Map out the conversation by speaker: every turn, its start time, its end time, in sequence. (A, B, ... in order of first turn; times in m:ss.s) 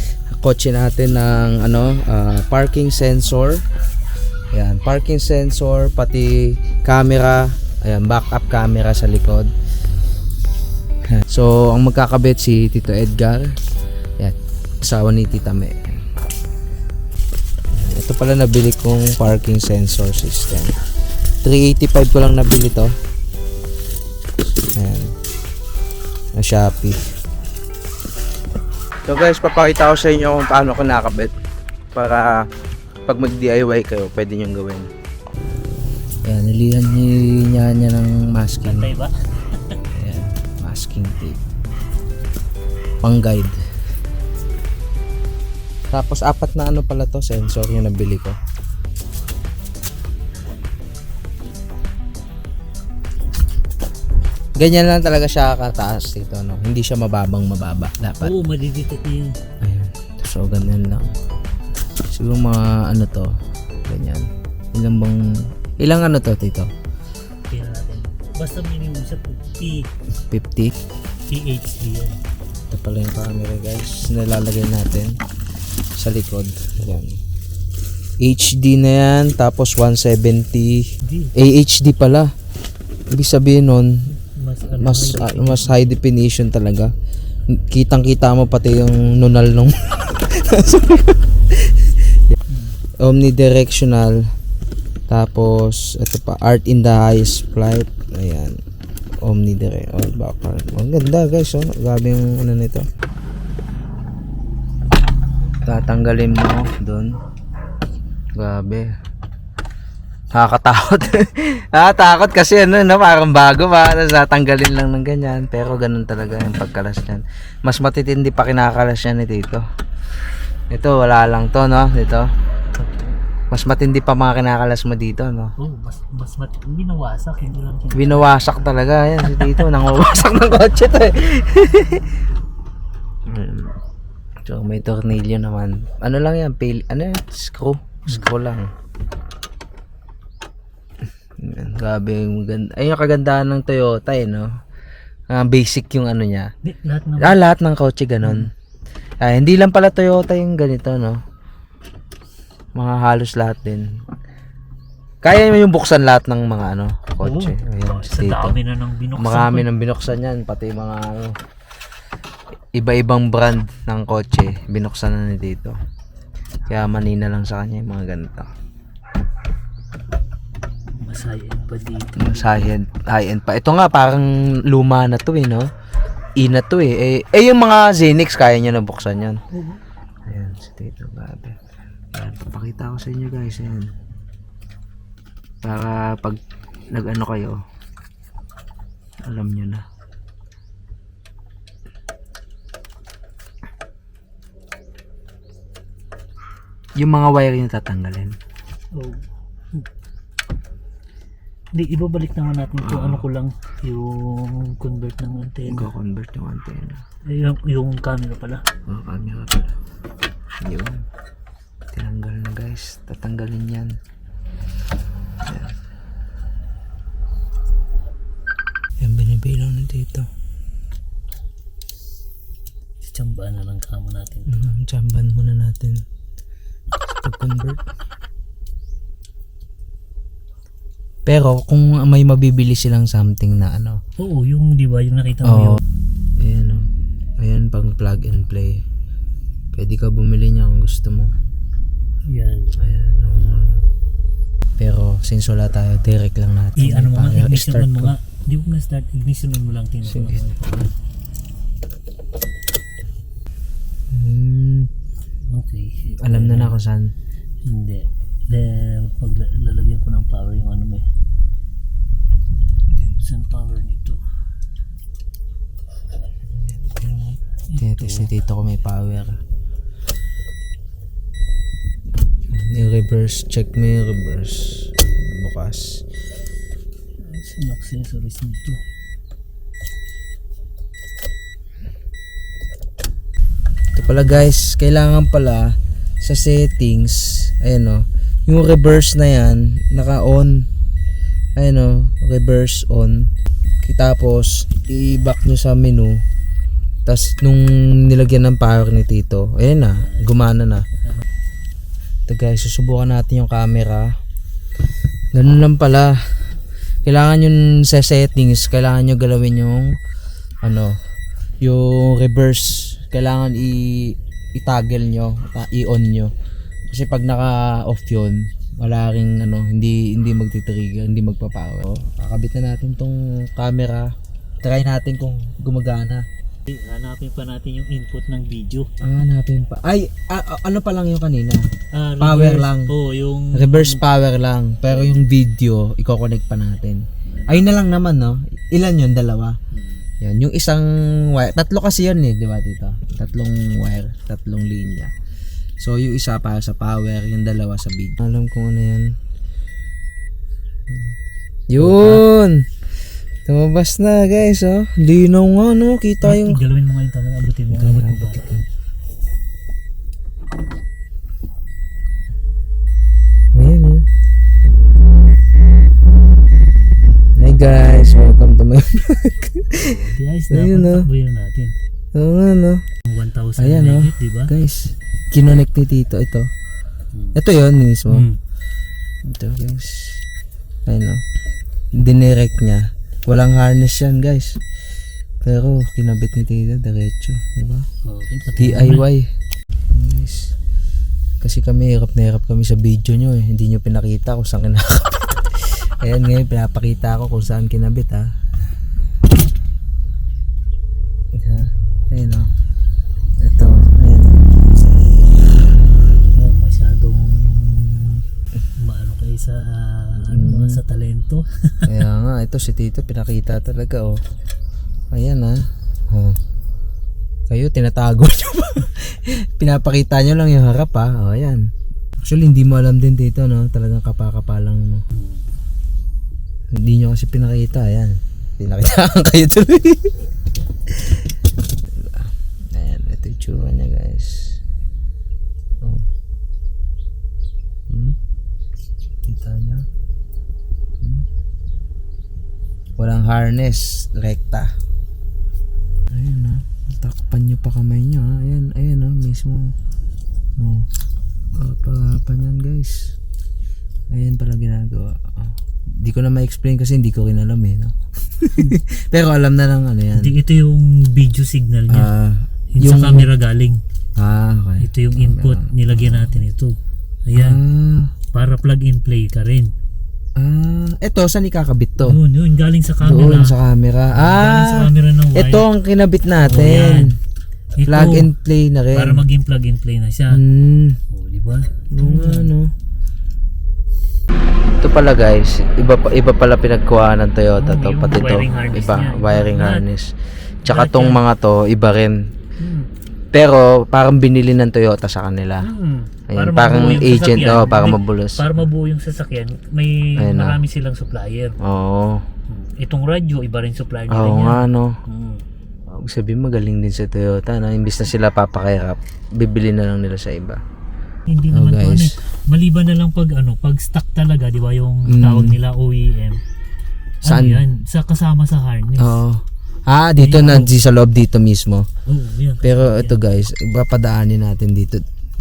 0:00.3-0:03.6 A
0:04.5-0:09.5 A
0:11.1-0:13.5 A
0:14.2-0:16.0 A
0:17.7-0:20.8 A
0:21.4-0:22.9 A
0:24.7-0:25.1 A
0:26.4-0:27.0 A
0:29.0-0:31.3 A
0:31.9-0:32.4 A
0:33.0-0:34.9 A
0:36.2-0:38.9 A
0:38.6-0:39.8 B
0:39.9-0:41.4 A
0:43.0-0:43.6 A
0:45.9-0:48.4 A
0:54.6-0:58.3 A
0:58.2-0:59.4 B
0:59.6-1:01.2 A
1:02.1-1:03.3 A
1:03.8-1:05.2 A
1:05.8-1:06.7 A
1:07.5-1:09.9 B
1:10.3-1:10.8 A
1:11.3-1:12.2 B
1:12.7-1:15.1 A
1:16.0-1:17.2 A
1:18.2-1:22.3 A
1:21.0-1:21.3 B
1:23.1-1:24.1 A
1:24.1-1:25.9 B
1:24.8-1:26.9 A
1:27.5-1:32.4 A
1:32.5-1:32.8 B
1:33.0-1:34.2 A
1:35.1-1:38.6 A
1:39.2-1:42.8 A
1:45.6-1:47.1 A
1:48.4-1:48.9 A
1:50.3-1:59.6 A
2:00.7-2:02.3 A
2:02.8-2:03.1 B
2:03.5-2:05.5 A
2:05.6-2:08.3 B
2:07.9-2:12.1 A
2:09.4-2:09.6 B
2:13.3-2:13.8 A
2:14.4-2:18.7 A
2:21.4-2:24.5 A
2:25.3-2:26.5 A
2:26.6-2:27.4 B
2:27.2-2:28.5 A
2:28.2-2:28.5 B
2:29.2-2:31.2 A
2:32.8-2:33.9 A
2:35.2-2:38.6 A
2:37.2-2:39.7 B
2:39.1-2:41.3 A
2:42.8-2:45.8 A
2:46.7-2:48.5 A
2:51.0-2:52.7 B
2:52.2-2:55.7 A
2:56.4-2:59.4 A
2:59.5-2:59.8 B
3:00.3-3:01.6 A
3:02.1-3:03.9 A
3:05.6-3:06.4 A
3:06.9-3:07.6 A
3:09.2-3:09.8 A
3:17.0-3:18.3 A
3:18.9-3:19.8 B
3:21.7-3:25.9 B
3:22.8-3:23.2 A
3:25.6-3:27.0 A
3:27.3-3:28.6 B
3:28.9-3:29.7 A
3:30.6-3:31.0 A
3:31.9-3:34.0 A
3:35.4-3:35.7 A
3:39.0-3:40.3 A
3:43.0-3:44.6 B
3:44.5-3:46.0 A
3:47.2-3:47.8 A
3:51.2-3:54.0 A
3:54.2-3:55.8 B
3:55.4-3:55.8 A
3:56.4-3:56.9 A
3:57.4-3:58.8 A
3:59.7-4:01.3 A
4:02.3-4:02.8 B
4:02.8-4:03.8 A
4:04.8-4:08.1 A
4:06.8-4:10.7 B
4:10.1-4:10.9 A
4:14.1-4:14.9 A
4:15.5-4:16.8 B
4:16.2-4:17.1 A
4:17.6-4:21.0 B
4:22.9-4:23.2 A
4:23.1-4:24.2 B
4:26.5-4:29.4 A
4:27.7-4:28.3 B
4:32.5-4:36.0 A
4:37.2-4:38.8 B
4:43.9-4:50.7 A
4:44.0-4:44.4 B
4:51.6-4:53.3 A
4:53.8-4:56.2 A
4:57.0-5:00.8 A
4:59.9-5:00.4 B
5:02.3-5:04.1 A
5:05.3-5:06.2 A
5:07.0-5:10.0 A
5:10.6-5:11.0 A
5:11.6-5:16.3 A
5:16.9-5:24.1 A
5:24.6-5:26.2 A
5:26.7-5:28.9 B
5:29.0-5:31.6 A
5:31.9-5:34.0 B
5:32.2-5:32.9 A
5:33.5-5:39.6 A
5:37.3-5:37.6 B
5:39.7-5:40.1 B
5:40.2-5:45.1 A
5:45.8-5:49.1 A
5:50.9-5:51.2 A
5:51.7-5:52.7 A
5:51.8-5:52.2 B
5:53.4-5:56.6 A
5:56.2-5:58.6 B
5:57.7-5:58.6 A
6:03.5-6:04.0 A
6:07.4-6:11.1 A
6:09.8-6:11.7 B
6:12.1-6:12.8 A
6:13.0-6:14.5 B
6:13.6-6:16.5 A
6:17.3-6:18.3 A
6:18.1-6:18.4 B
6:19.2-6:20.2 A
6:20.9-6:21.2 A
6:22.0-6:24.6 A
6:25.4-6:27.8 A
6:28.0-6:29.0 B
6:28.6-6:29.3 A
6:29.9-6:30.5 A
6:31.4-6:38.3 A
6:41.3-6:42.5 A
6:43.4-6:44.4 A
6:46.3-6:48.2 B
6:48.8-6:51.9 B
6:50.2-6:50.8 A
6:51.9-6:54.2 A
6:55.1-6:56.4 A
6:57.5-7:01.6 A
7:02.2-7:05.0 A
7:05.1-7:05.4 B
7:06.7-7:10.2 A
7:10.9-7:11.2 A
7:11.9-7:14.6 A
7:17.9-7:18.2 A
7:19.2-7:19.8 A
7:23.0-7:24.7 A
7:26.1-7:29.7 A
7:30.6-7:30.9 A
7:31.5-7:33.1 A
7:34.1-7:40.3 A
7:40.1-7:42.1 B
7:41.9-7:43.3 A
7:42.7-7:43.8 B
7:44.2-7:46.4 A
7:44.8-7:46.7 B
7:47.3-7:47.6 B
7:47.4-7:48.1 A
7:48.3-7:49.7 B
7:50.4-7:52.2 A
7:52.0-7:53.6 B
7:53.0-7:57.1 A
7:54.1-7:55.6 B
7:56.4-7:57.1 B
7:57.8-7:58.3 B
7:57.8-7:59.2 A
7:58.9-8:00.4 B
8:00.3-8:01.0 A
8:01.1-8:02.5 B
8:01.9-8:02.7 A
8:04.8-8:10.1 A
8:07.6-8:09.8 B
8:10.6-8:12.2 A
8:10.7-8:11.2 B
8:12.6-8:12.9 B
8:13.3-8:15.7 A
8:15.6-8:21.6 B
8:16.3-8:18.6 A
8:20.2-8:20.6 A
8:21.6-8:22.2 A
8:22.5-8:25.4 B
8:24.1-8:25.0 A
8:25.9-8:30.6 A
8:31.3-8:36.4 B
8:31.5-8:32.1 A
8:35.1-8:35.6 A
8:37.2-8:39.2 B
8:37.2-8:37.6 A
8:39.0-8:41.8 A
8:40.2-8:40.7 B
8:42.1-8:43.2 B
8:42.6-8:45.0 A